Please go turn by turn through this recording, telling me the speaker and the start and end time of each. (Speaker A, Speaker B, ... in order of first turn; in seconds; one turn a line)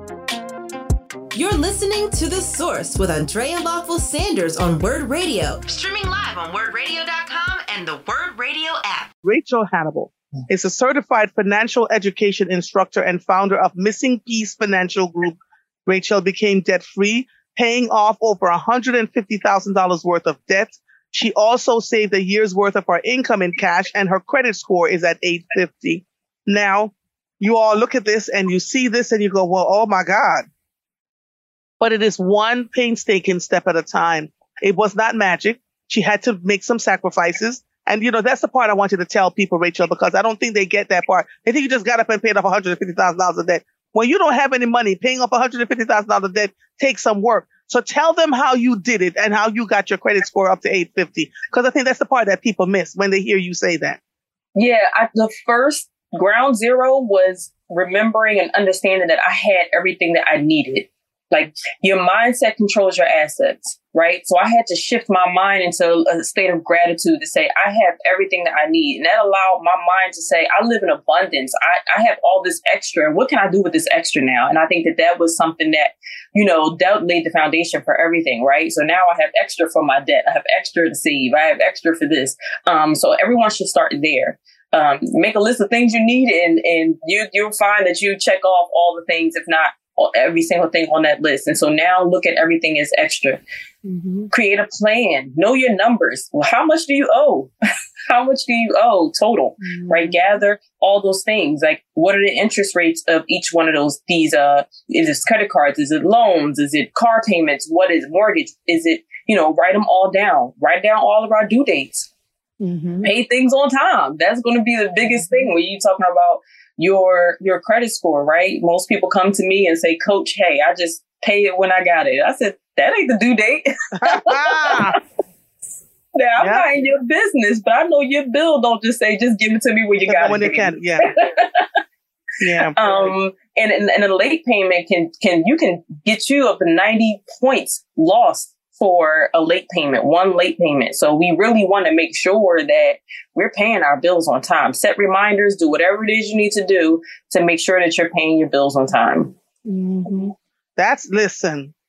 Speaker A: 1.4-9.1
Speaker B: 9.2-30.5
Speaker B: 31.8-54.0
Speaker C: 54.5-93.4
Speaker B: 93.8-94.3
Speaker C: 94.3-97.5
Speaker C: 98.1-112.1
Speaker B: 99.6-100.2
Speaker B: 112.6-113.1
Speaker C: 113.0-125.0
Speaker B: 115.0-115.5
Speaker B: 124.0-125.0
Speaker C: 126.2-131.7
Speaker B: 126.4-126.7
Speaker B: 130.1-131.1
Speaker B: 132.4-133.1
Speaker C: 132.7-149.3
Speaker B: 149.7-151.7